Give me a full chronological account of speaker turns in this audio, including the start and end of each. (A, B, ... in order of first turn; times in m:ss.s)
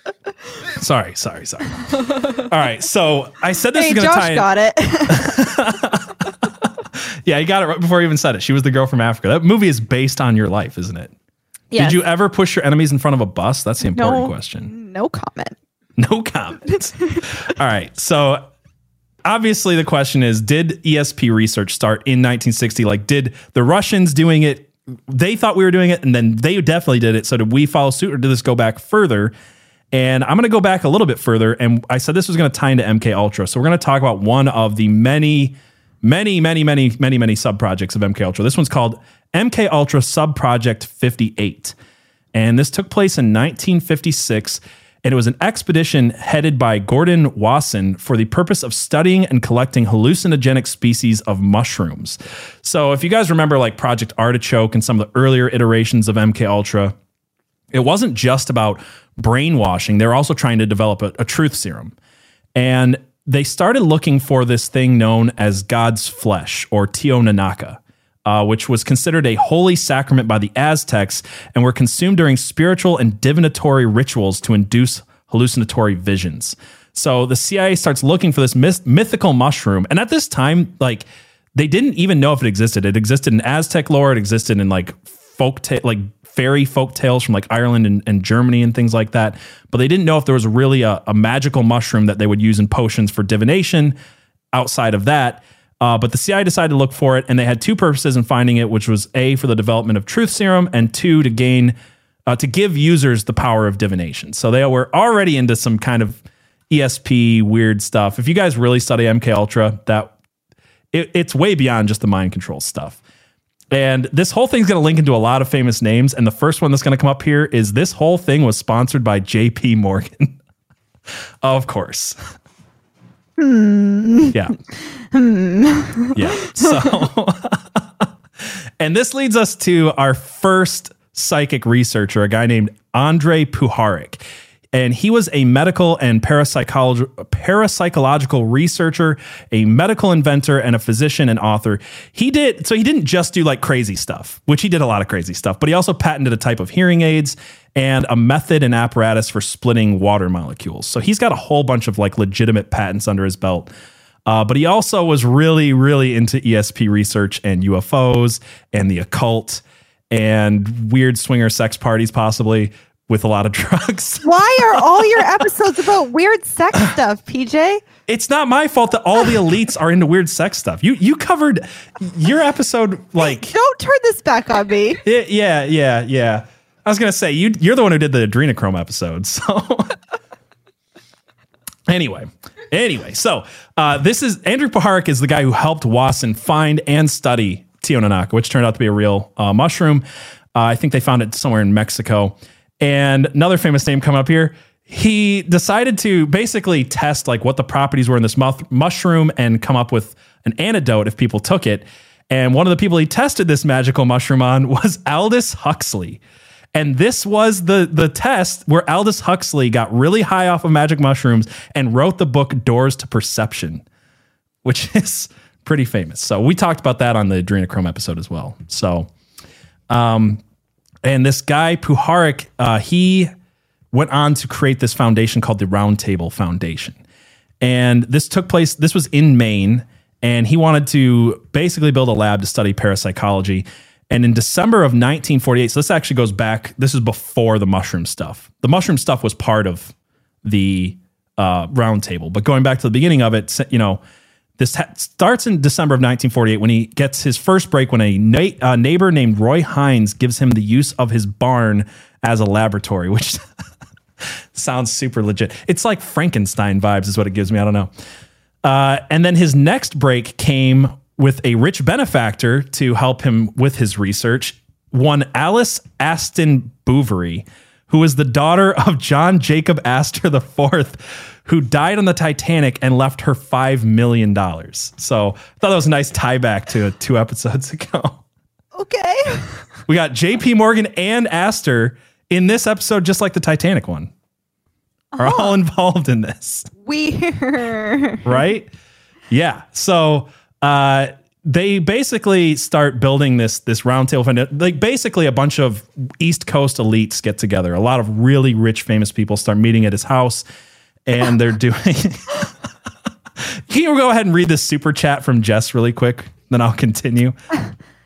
0:00.7-0:04.5 A
0:03.7-0:05.5 B
0:05.1-0:11.1 A
0:11.7-0:12.0 B
0:11.8-0:14.7 A
0:13.9-0:15.6 B
0:16.0-0:18.5 A
0:19.2-0:29.3 A
0:29.9-0:41.7 A
0:42.3-0:56.9 A
0:57.7-1:01.9 A
1:02.5-1:34.0 A
1:34.5-1:41.7 A
1:42.3-1:50.1 A
1:50.9-1:53.0 A
1:53.7-2:00.4 A
2:01.4-2:02.2 A
2:03.4-2:04.4 B
2:05.0-2:06.7 B
2:06.1-2:14.2 A
2:14.7-2:33.7 A
2:34.2-2:45.3 A
2:44.2-2:47.8 B
2:48.1-2:53.5 A
2:53.2-2:55.0 B
2:55.0-3:00.0 A
3:01.9-3:26.2 A
3:26.7-3:33.8 A
3:34.6-3:39.1 A
3:39.9-3:40.4 A
3:41.0-3:43.3 A
3:43.9-3:47.0 A
3:47.6-4:04.0 A
4:04.6-4:13.4 A
4:14.2-4:17.9 A
4:18.6-4:38.2 A
4:38.7-4:39.6 B
4:39.9-4:44.1 A
4:45.1-4:45.5 B
4:45.2-4:46.7 A
4:46.8-4:48.3 B
4:48.2-4:48.7 A
4:49.3-5:00.4 A
5:01.0-5:02.5 A
5:03.4-5:07.4 A